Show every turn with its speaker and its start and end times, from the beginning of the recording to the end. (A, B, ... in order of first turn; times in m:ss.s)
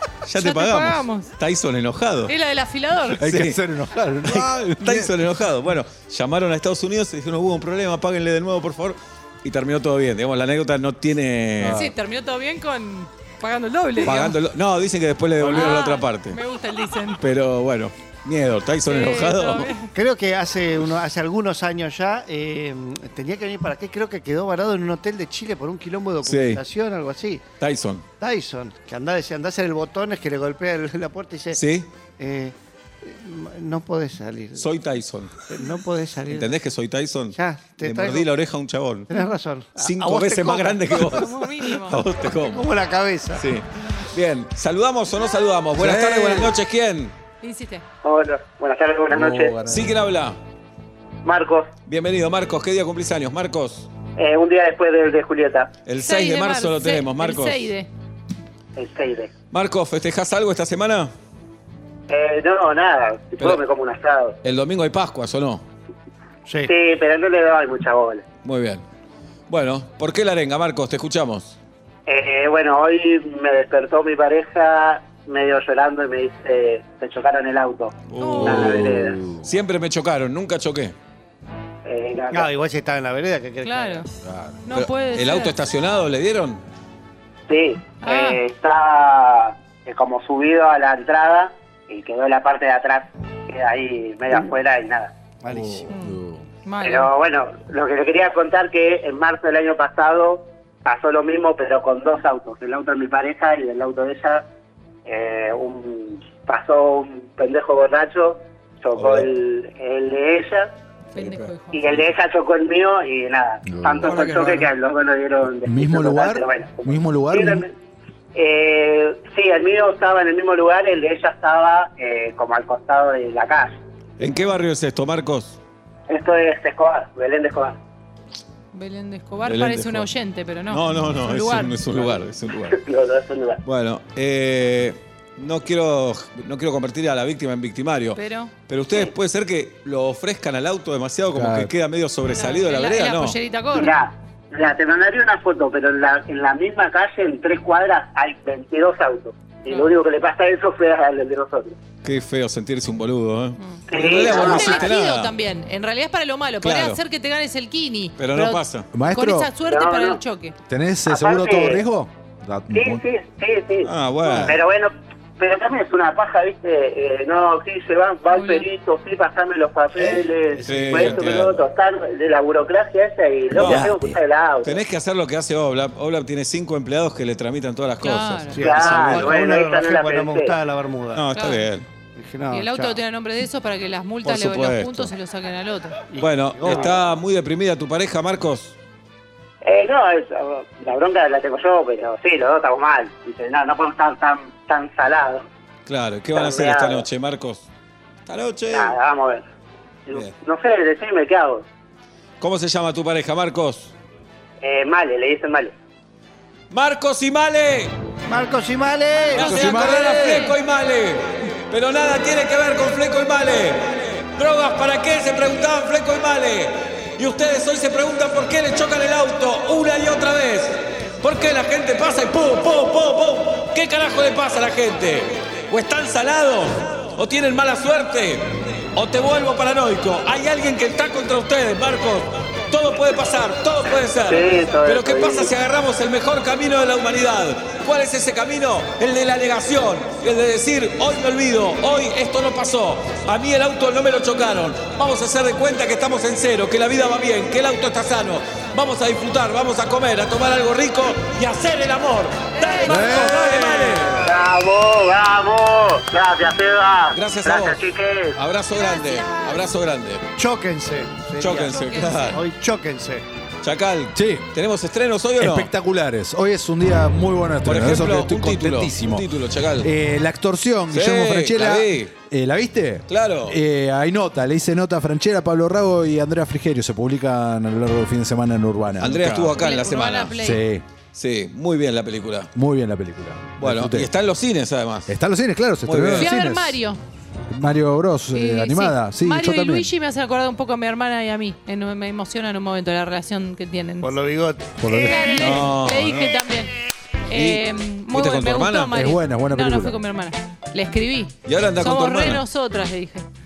0:00.2-0:02.3 A
0:00.4-0:01.3 B
0:02.3-0:03.2 B
0:03.2-0:05.1 C
0:03.2-0:03.6 A
0:04.2-0:11.8 A
0:11.6-0:11.9 C
0:11.7-0:14.4 B
0:14.0-0:16.4 A
0:15.4-0:17.2 B
0:17.2-0:19.7 A
0:18.9-0:19.9 B
0:19.9-0:27.4 D
0:26.2-0:26.6 A
0:27.6-0:28.0 A
0:28.2-0:31.6 D
0:31.5-0:31.9 A
0:32.2-0:34.7 D
0:34.6-0:35.3 A
0:35.5-0:36.5 D
0:36.3-0:39.1 A
0:37.3-0:38.3 D
0:39.1-0:41.3 D
0:39.8-0:41.3 A
0:41.0-0:42.0 B
0:41.9-0:42.7 A
0:42.3-0:43.4 D
0:43.4-0:47.2 A
0:45.8-0:46.5 C
0:47.4-0:47.8 B
0:48.0-0:49.6 E
0:49.1-0:49.9 C
0:49.7-0:50.4 A
0:51.2-0:51.7 E
0:51.9-0:53.9 A
0:54.2-0:55.7 E
0:55.8-0:57.7 A
0:56.0-0:57.9 B
0:58.8-0:59.3 E
0:59.5-1:01.1 A
1:02.1-1:04.4 E
1:04.4-1:05.6 A
1:06.5-1:06.7 D
1:06.6-1:08.2 E
1:08.4-1:08.8 A
1:09.5-1:11.6 A
1:12.1-1:19.2 E
1:18.1-1:20.9 A
1:18.2-1:18.8 B
1:18.4-1:19.5 C
1:21.8-1:22.5 E
1:22.3-1:24.0 D
1:23.6-1:24.1 B
1:24.2-1:24.6 C
1:24.6-1:25.5 B
1:24.7-1:26.6 A
1:27.5-1:35.1 E
1:28.0-1:28.4 B
1:35.4-1:35.9 D
1:35.5-1:36.4 C
1:35.9-1:37.1 B
1:36.8-1:44.4 E
1:45.0-1:50.7 E
1:51.1-1:51.8 B
1:51.7-1:57.7 E
1:53.7-1:54.7 C
1:55.6-1:57.6 C
1:58.3-2:03.8 E
2:04.2-2:05.6 A
2:06.1-2:07.8 E
2:08.7-2:11.8 B
2:09.4-2:10.1 A
2:10.7-2:12.8 A
2:12.6-2:13.6 E
2:13.6-2:23.4 A
2:18.1-2:18.5 B
2:21.3-2:21.7 C
2:22.4-2:24.0 B
2:23.7-2:31.8 E
2:32.0-2:35.3 A
2:33.6-2:40.5 B
2:33.9-2:34.9 E
2:36.6-2:37.0 A
2:38.2-2:38.9 A
2:38.9-2:39.5 C
2:39.6-2:40.2 E
2:40.7-2:43.0 C
2:41.1-2:41.8 E
2:42.7-2:54.8 E
2:43.8-2:44.6 A
2:48.3-2:48.7 B
2:49.9-2:51.3 D
2:50.6-2:51.6 A
2:53.5-2:54.1 A
2:53.6-2:53.9 D
2:54.6-2:59.3 A
2:58.0-2:58.6 B
2:58.5-3:01.2 D
2:58.6-3:00.6 E
3:01.1-3:01.8 A
3:01.3-3:01.6 B
3:02.2-3:03.0 D
3:02.5-3:06.0 B
3:04.2-3:05.1 A
3:06.1-3:07.0 D
3:06.2-3:08.8 A
3:09.6-3:15.4 E
3:15.8-3:17.6 A
3:16.3-3:17.0 E
3:18.2-3:19.0 A
3:18.7-3:19.4 E
3:20.1-3:21.6 E
3:22.4-3:23.9 A
3:24.6-3:25.7 E
3:26.7-3:27.9 A
3:28.3-3:29.7 D
3:29.3-3:30.5 B
3:29.3-4:14.2 A
3:29.4-3:30.5 C
3:54.3-3:55.5 E
4:12.5-4:13.4 B
4:12.8-4:14.1 C
4:14.2-4:18.4 E
4:17.1-4:17.8 A
4:18.4-4:20.2 A
4:18.8-4:19.6 B
4:20.4-4:23.2 D
4:21.4-4:22.4 A
4:21.7-4:22.4 B
4:23.6-4:25.7 A
4:24.1-4:24.5 C
4:25.4-4:29.3 C
4:27.6-4:29.9 A
4:29.8-4:39.6 C
4:30.9-4:32.1 A
4:33.1-4:33.6 A
4:39.0-4:40.4 A
4:39.6-4:40.6 B
4:40.4-4:40.8 C
4:41.1-4:42.5 A
4:42.5-4:44.1 C
4:43.6-4:45.2 A
4:45.1-4:46.8 C
4:45.8-4:46.4 A
4:46.2-4:47.0 B
4:47.5-4:49.9 C
4:48.3-4:54.1 B
4:54.0-4:55.6 D
4:54.8-4:55.5 C
4:54.9-4:56.7 B
4:55.4-4:56.3 A
4:57.3-5:03.3 B
4:57.3-4:58.9 A
4:58.9-5:00.0 C
5:01.4-5:02.4 A